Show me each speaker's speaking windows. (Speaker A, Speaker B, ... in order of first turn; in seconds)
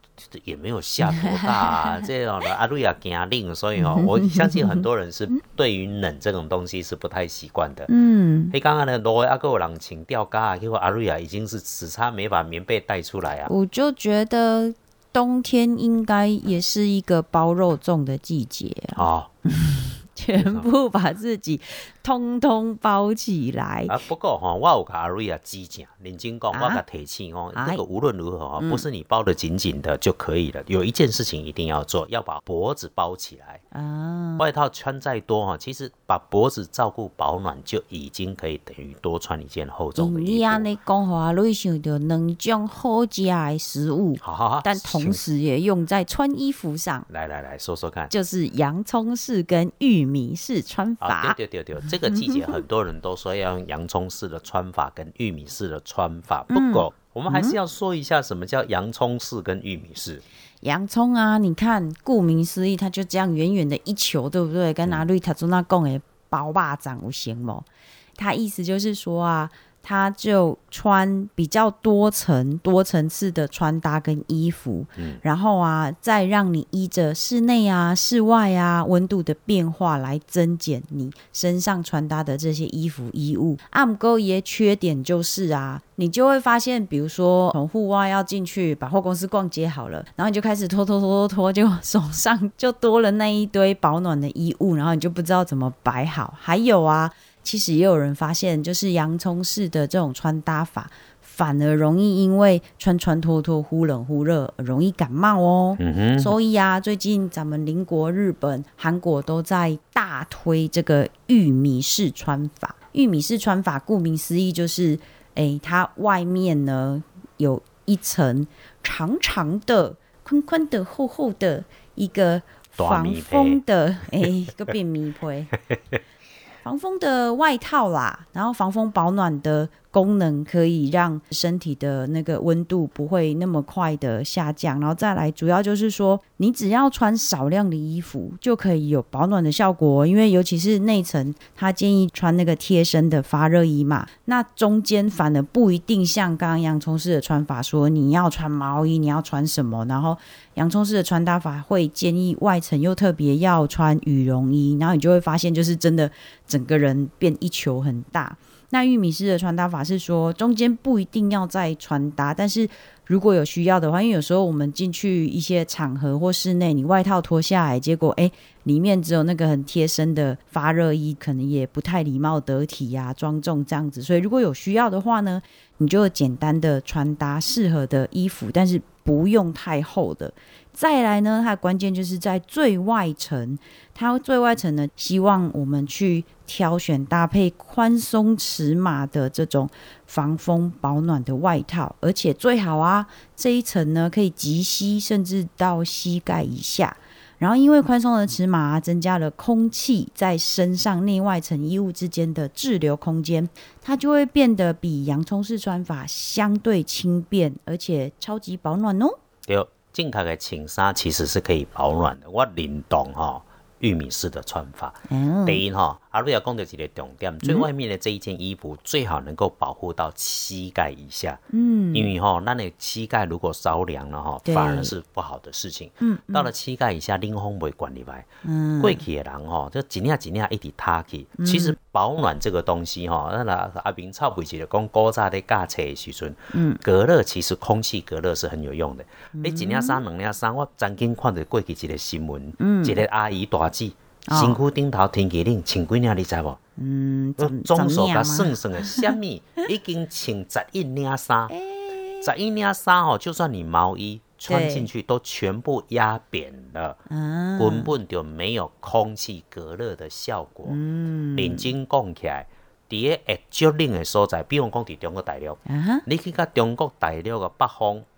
Speaker A: 0.3-7.9, 8.5-13.5, 18.9-19.3, 20.4-20.7, 23.9-33.6, 34.4-40.7, 44.2-45.3, 47.1-48.1, 51.0-60.2, 75.0-75.2, 105.8-106.3, 122.8-123.6, 209.5-221.4, 221.9-228.3, 228.8-246.6, 247.4-251.6, 252.2-257.0, 257.6-260.8, 261.4-268.1
Speaker B: 1.0-2.0, 3.8-4.9, 7.9-8.5, 13.5-24.0, 26.5-26.8, 27.5-27.8, 28.6-28.9, 33.7-34.4, 40.0-47.1, 48.1-51.4, 52.1-52.6, 56.5-57.6, 60.6-125.5, 126.6-209.2, 215.1-215.6, 217.4-217.7, 221.5-222.1, 224.4-224.9, 226.0-226.5, 228.4-229.1, 231.4-231.8, 236.5-236.8, 239.3-240.0, 242.6-243.0, 244.3-244.6, 246.8-249.2, 251.5-252.3, 254.5-254.9, 257.1-257.9, 260.7-261.7, 265.7-266.1